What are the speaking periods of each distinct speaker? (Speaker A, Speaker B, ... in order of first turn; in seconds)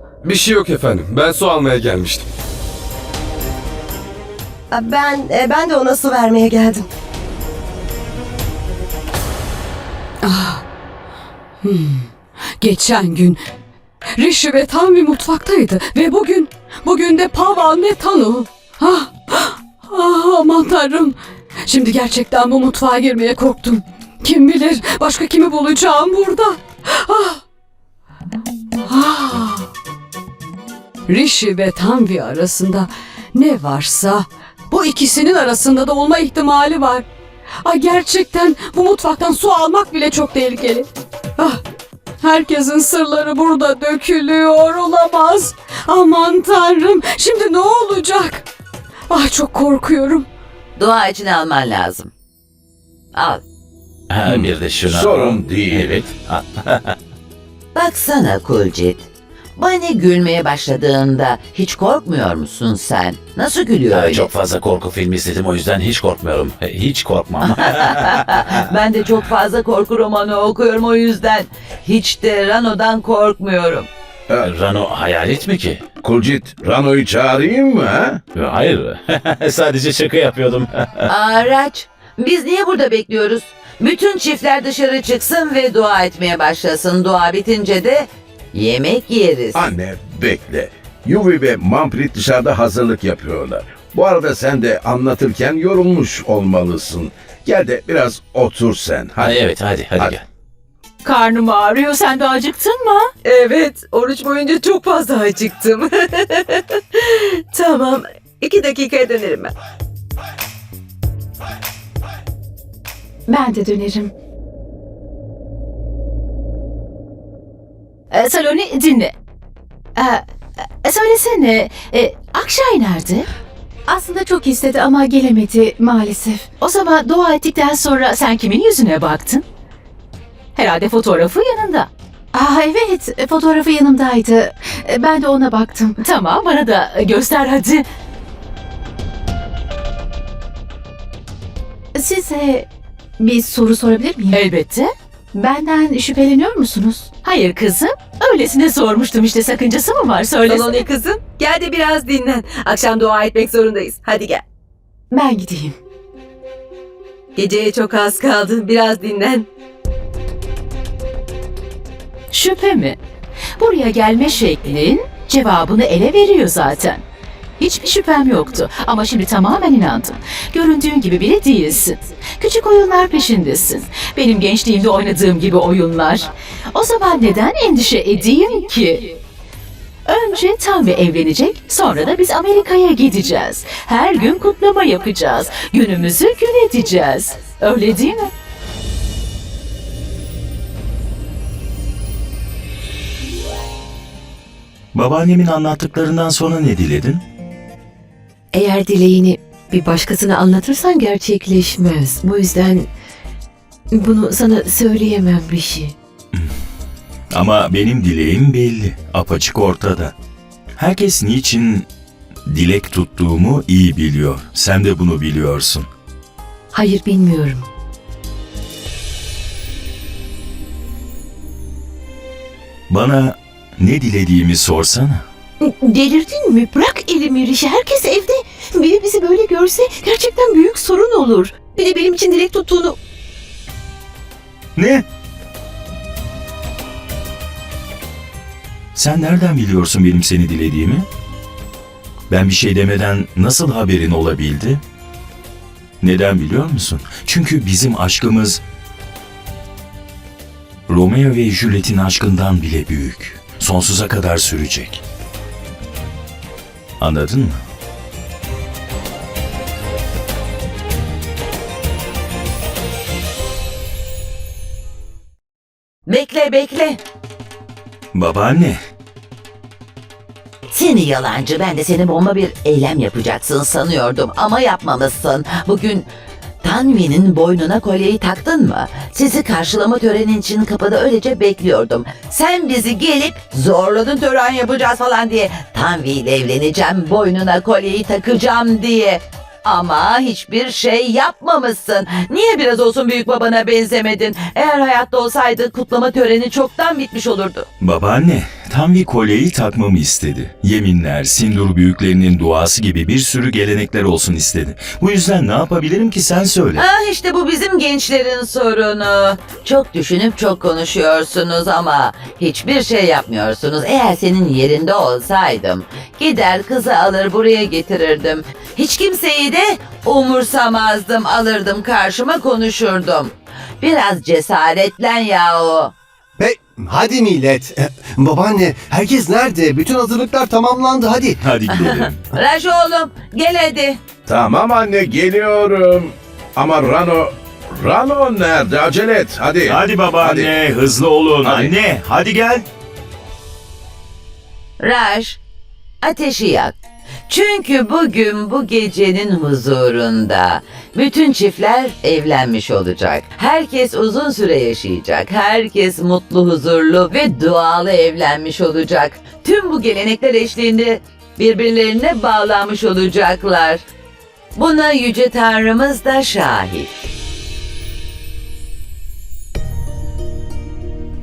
Speaker A: 0.2-2.3
Speaker B: 4.7-6.9
Speaker C: 10.2-10.6, 11.6-13.4, 14.2-27.4, 28.9-29.7, 31.1-37.0, 37.6-41.6, 42.2-48.5, 49.1-50.2
Speaker D: 50.8-52.1, 53.1-53.4, 57.7-64.3, 67.4-73.9, 81.0-89.7, 266.1-267.0, 270.7-276.1, 276.6-297.7, 306.7-325.9, 331.7-334.0, 344.8-345.4, 346.0-346.7, 347.3-363.8, 364.5-366.9
Speaker E: 54.1-56.8, 63.9-68.2, 74.4-75.8, 78.3-81.0, 99.2-100.2
Speaker F: 54.2-56.1, 76.0-78.2, 89.5-100.2, 334.3-340.6, 341.4-341.7
Speaker G: 101.0-103.1, 118.1-119.1, 120.0-123.2, 126.6-129.4, 130.5-131.9, 136.0-137.8, 144.3-144.9, 147.2-150.8, 162.3-163.0, 163.6-167.0, 167.6-179.2, 180.1-188.3
Speaker H: 103.2-106.6, 107.4-109.5, 150.4-154.4, 157.3-159.5
Speaker I: 113.3-114.1, 123.9-126.5, 132.3-136.0, 141.9-142.7, 143.2-144.4, 145.3-147.1, 155.1-155.7
Speaker J: 194.9-197.2, 207.3-210.1, 210.8-211.9, 212.5-215.9, 222.9-225.2, 234.8-235.0, 238.9-241.1, 242.3-244.8, 246.0-248.6, 250.9-255.0, 257.0-257.6, 268.1-268.8, 297.8-306.8, 331.4-332.2, 339.6-342.6
Speaker K: 198.5-202.8, 203.9-205.9, 216.7-217.6, 225.6-232.9
Speaker L: 326.4-331.4